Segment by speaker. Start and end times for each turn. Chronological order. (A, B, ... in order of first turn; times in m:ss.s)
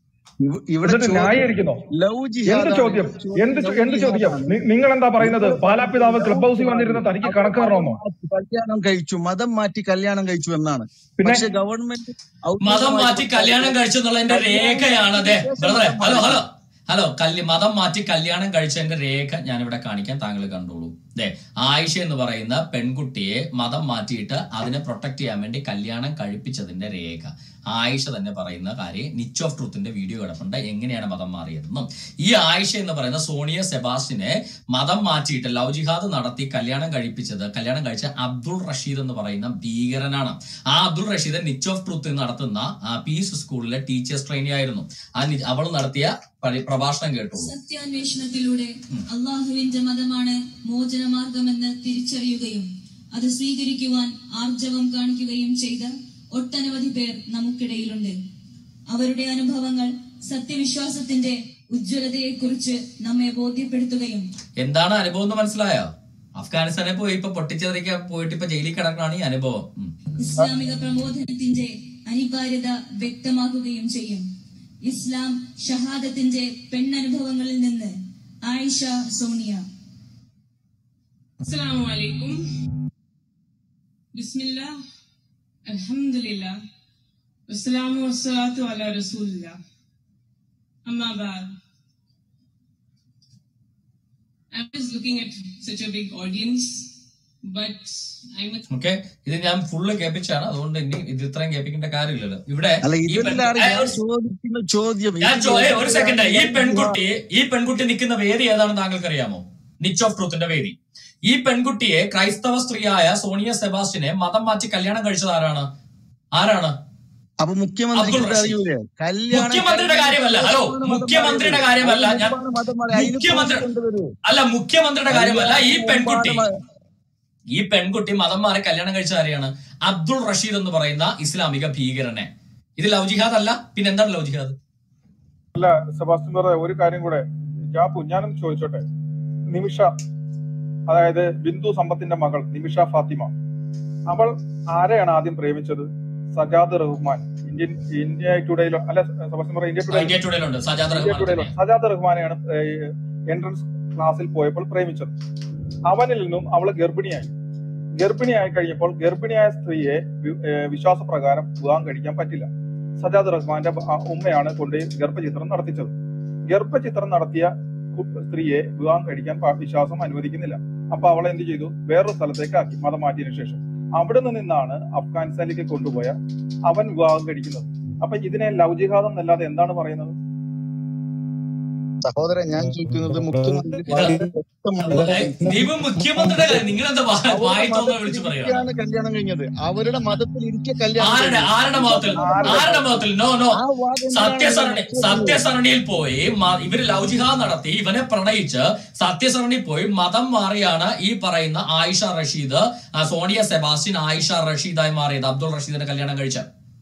0:00.4-0:04.6 A
0:00.8-0:01.8 B
0:02.4-0:08.0 B
0:05.2-0:16.4 A
0:11.2-0:11.4 B
0:12.6-0:47.5 C
0:47.3-0:58.1 D
0:58.9-1:04.3 D
1:04.6-1:09.9 C
1:10.2-1:14.2 D
1:14.8-1:19.6 D
1:21.4-1:22.4 E
1:24.1-1:24.7 E
1:25.7-1:26.5 E
1:27.5-1:29.6 E
1:30.8-1:31.5 E
1:34.5-1:36.9 E
1:37.4-1:38.6 E
1:38.7-1:43.9 C
1:42.8-1:47.0 A
1:45.2-1:50.8 C
1:51.3-1:55.7 C
1:56.3-1:56.7 C
1:57.4-2:04.1 A
1:57.9-1:58.6 C
1:59.3-2:02.3 C
2:02.9-2:03.6 C
2:04.2-2:06.4 C
2:05.1-2:06.5 A
2:07.5-2:14.5 C
2:15.5-2:18.8 B
2:19.5-2:19.9 B
2:20.9-2:23.3 B
2:24.1-2:30.1 B
2:29.9-2:31.5 C
2:30.9-2:35.1 B
2:35.9-2:37.3 B
2:38.0-2:45.9 B
2:46.5-2:56.2 B
2:56.7-3:00.1 B
3:02.0-3:06.6 A
3:04.8-3:08.6 C
3:07.3-3:13.0 A
3:11.0-3:13.6 C
3:12.1-3:13.0 B
3:13.6-3:15.4 A
3:14.1-3:26.4 C